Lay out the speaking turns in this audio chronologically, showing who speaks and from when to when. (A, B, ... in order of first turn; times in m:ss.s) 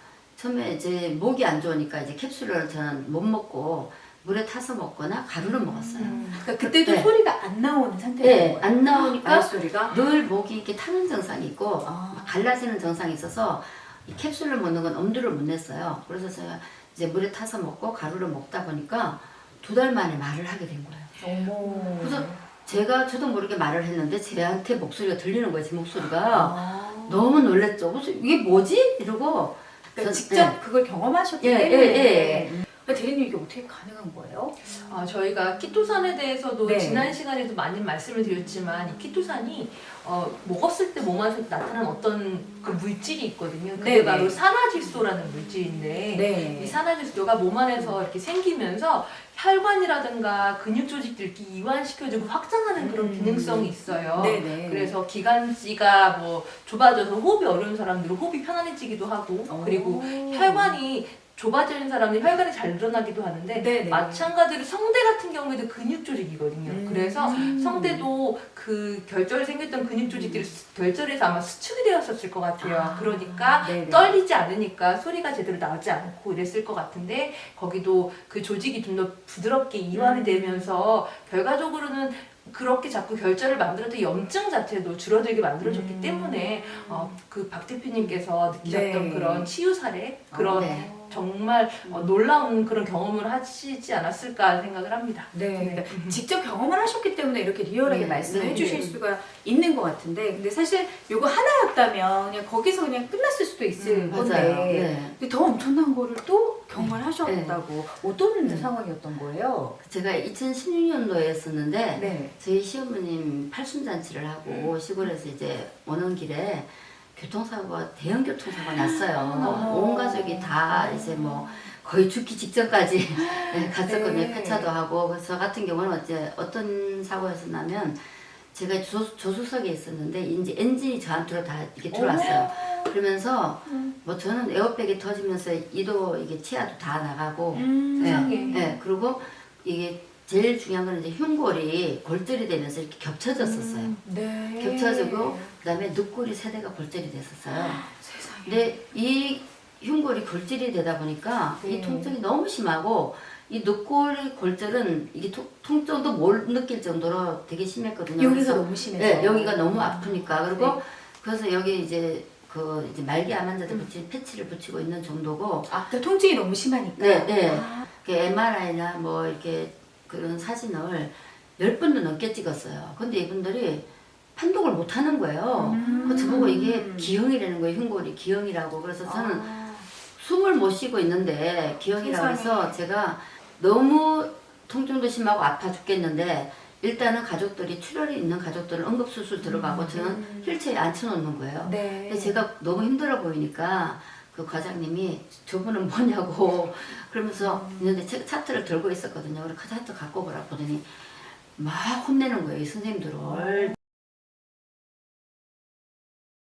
0:00.4-0:07.1 A
0:05.8-0:10.0 B
0:05.9-0:06.5 C
0:08.2-0:21.1 A
0:11.8-0:12.3 B
0:21.2-0:22.4 B
0:22.0-0:30.6 A
0:26.3-0:27.2 B
0:30.0-0:34.7 B
0:31.4-0:32.5 A
0:34.7-1:36.2 C
0:36.6-0:37.2 B
0:43.8-0:44.4 B
0:46.1-0:46.8 B
0:52.8-0:54.9 B
0:59.5-1:00.8 B
1:03.5-1:04.3 B
1:06.7-1:08.1 B
1:10.1-1:10.5 B
1:12.6-1:14.1 B
1:19.9-1:20.8 B
1:25.6-1:27.2 B
1:28.6-1:29.5 B
1:30.3-1:31.2 B
1:30.5-1:30.9 A
1:35.3-1:49.8 B
1:37.9-1:38.8 A
1:38.3-1:38.9 C
1:43.8-1:44.4 C
1:44.1-1:45.2 A
1:47.2-1:47.6 A
1:48.4-1:48.7 A
1:49.8-2:24.0 A
1:52.0-1:52.4 B
1:58.9-2:01.6 B
1:59.4-1:59.7 C
2:03.2-2:04.7 B
2:11.9-2:12.9 B
2:12.2-2:12.5 C
2:13.7-2:13.9 B
2:17.5-2:18.8 B
2:18.0-2:18.6 C
2:23.4-2:25.5 B
2:24.6-2:27.8 A
2:27.5-2:28.8 B
2:28.4-2:45.7 A
2:31.6-2:32.1 B
2:38.2-2:40.8 B
2:45.7-2:47.9 B
2:47.0-2:53.8 A
2:54.4-2:59.5 A
2:55.6-2:57.1 B
2:55.8-2:56.6 C
2:59.0-2:59.9 B
3:00.2-3:23.8 A
3:02.0-3:02.7 B
3:09.4-3:10.6 B
3:11.6-3:12.4 B
3:17.4-3:18.0 B
3:23.3-3:23.7 B